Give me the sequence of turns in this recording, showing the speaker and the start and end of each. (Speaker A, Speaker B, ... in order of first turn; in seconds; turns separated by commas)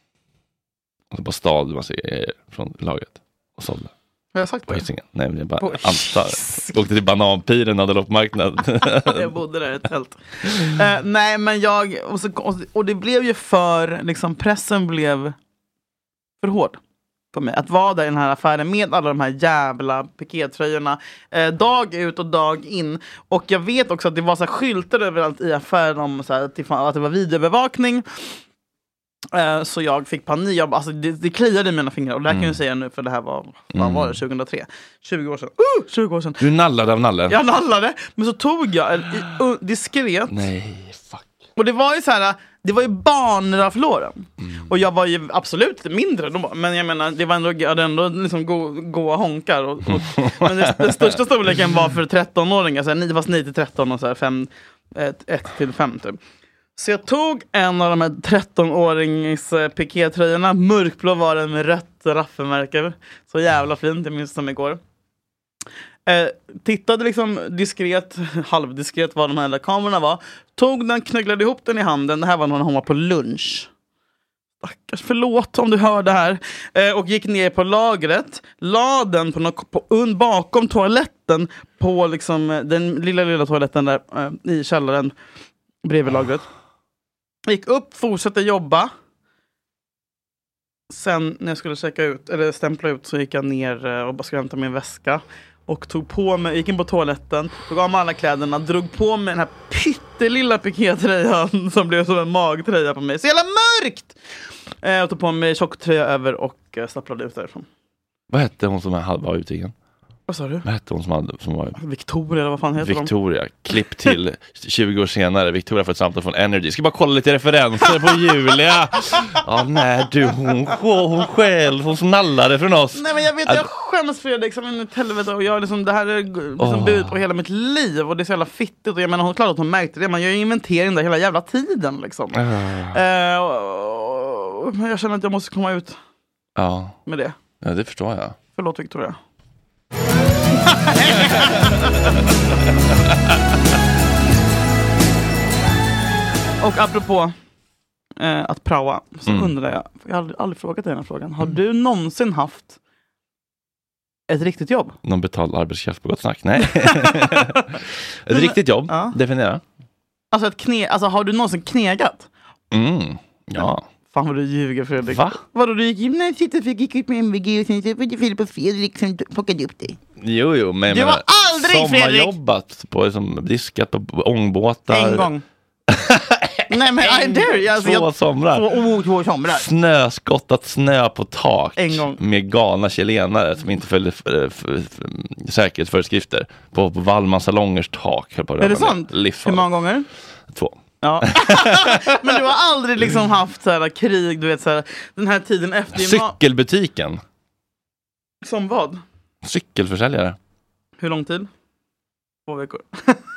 Speaker A: 1.1-3.9, Speaker B: 4.3-4.8, Speaker A: 4.7-9.3, Speaker B: 5.6-6.7, Speaker B: 9.0-15.3, Speaker B: 16.4-16.8, Speaker B: 17.3-28.2, Speaker B: 29.3-36.4, Speaker A: 32.3-32.5, Speaker A: 33.7-34.2, Speaker A: 36.4-37.4, Speaker B: 37.3-40.4, Speaker A: 40.3-41.2, Speaker B: 41.6-56.2, Speaker A: 44.4-44.7, Speaker A: 50.0-51.1, Speaker B: 56.8-64.8, Speaker B: 66.0-73.7, Speaker B: 74.6-85.1, Speaker B: 85.8-86.4, Speaker B: 87.5-88.9, Speaker B: 90.9-104.1, Speaker B: 104.8-107.7, Speaker A: 108.3-109.7, Speaker B: 110.3-110.6, Speaker A: 110.6-111.8, Speaker B: 111.8-113.1, Speaker A: 112.8-123.7, Speaker B: 122.9-132.4, Speaker A: 126.6-127.2, Speaker A: 132.3-133.0, Speaker B: 132.9-135.9, Speaker A: 136.6-136.9, Speaker B: 137.1-137.3, Speaker A: 137.6-138.3, Speaker B: 138.5-139.2, Speaker B: 140.6-141.9, Speaker B: 146.6-147.3, Speaker B: 148.2-152.8, Speaker A: 149.3-149.5, Speaker B: 154.3-154.9, Speaker A: 155.0-157.6, Speaker B: 156.7-157.4, Speaker A: 158.2-159.6, Speaker B: 158.3-159.1, Speaker B: 160.3-162.3, Speaker A: 162.7-163.8, Speaker B: 164.1-170.0, Speaker A: 165.1-165.4, Speaker A: 170.2-175.3, Speaker B: 170.9-172.3, Speaker B: 174.9-175.4, Speaker A: 175.9-178.8, Speaker B: 176.7-179.6, Speaker A: 179.5-189.7, Speaker B: 181.8-182.2, Speaker B: 188.6-190.1, Speaker A: 190.5-190.8, Speaker B: 191.0-196.3, Speaker A: 191.3-192.4, Speaker A: 195.9-197.2, Speaker B: 198.4-199.0, Speaker A: 199.4-200.4, Speaker B: 201.0-201.5, Speaker B: 202.5-203.2